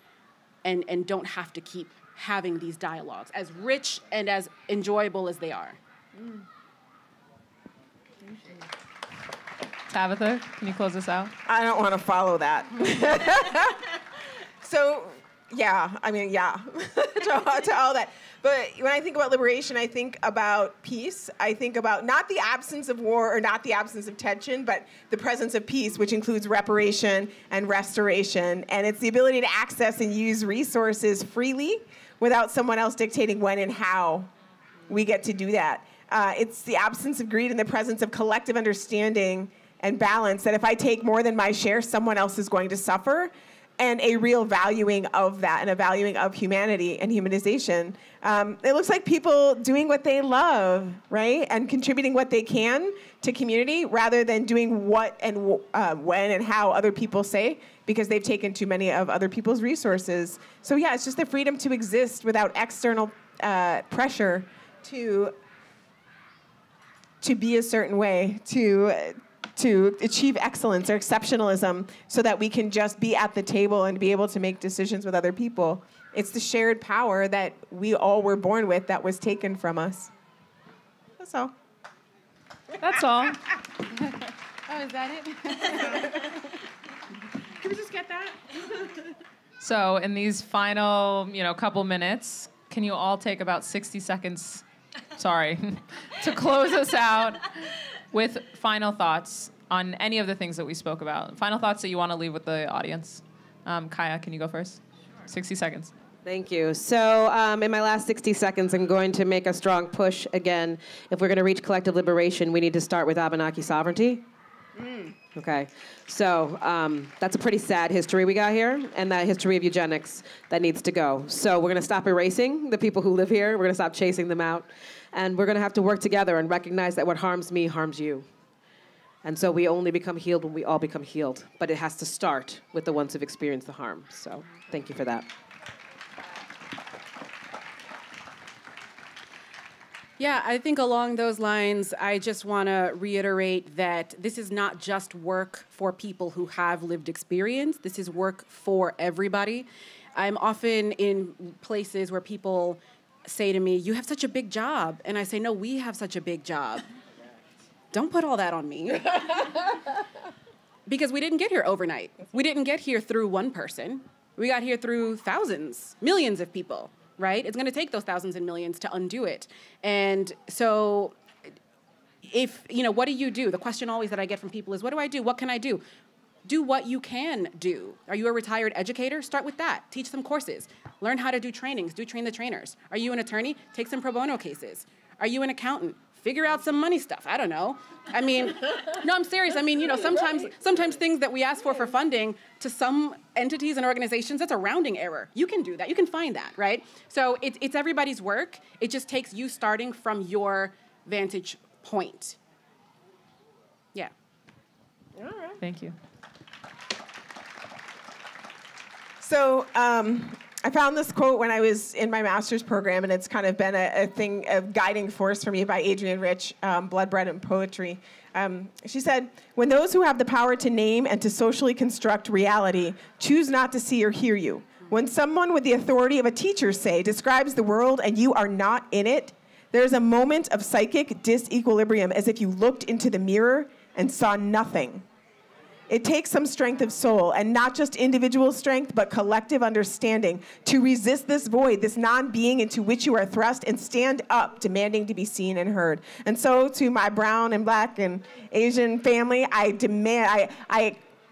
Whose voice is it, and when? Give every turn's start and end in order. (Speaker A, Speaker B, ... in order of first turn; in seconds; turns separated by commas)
Speaker A: 0.6-5.8, Speaker B: 6.2-6.4, Speaker C: 9.9-11.3, Speaker B: 11.4-14.0, Speaker B: 14.6-34.3, Speaker B: 34.9-65.3, Speaker B: 67.2-80.1, Speaker B: 81.2-81.5, Speaker C: 82.8-83.5, Speaker A: 84.7-86.4, Speaker A: 87.6-88.4, Speaker C: 89.6-94.6, Speaker C: 95.2-97.5, Speaker C: 98.1-105.9, Speaker D: 106.2-114.2, Speaker B: 114.8-115.1, Speaker D: 115.3-128.2, Speaker D: 129.2-135.3, Speaker A: 140.2-156.8, Speaker A: 157.9-159.8, Speaker A: 160.8-171.2, Speaker A: 172.2-175.8, Speaker A: 176.4-202.4, Speaker B: 205.2-205.6, Speaker C: 205.6-205.9, Speaker B: 209.2-235.0, Speaker B: 235.9-251.0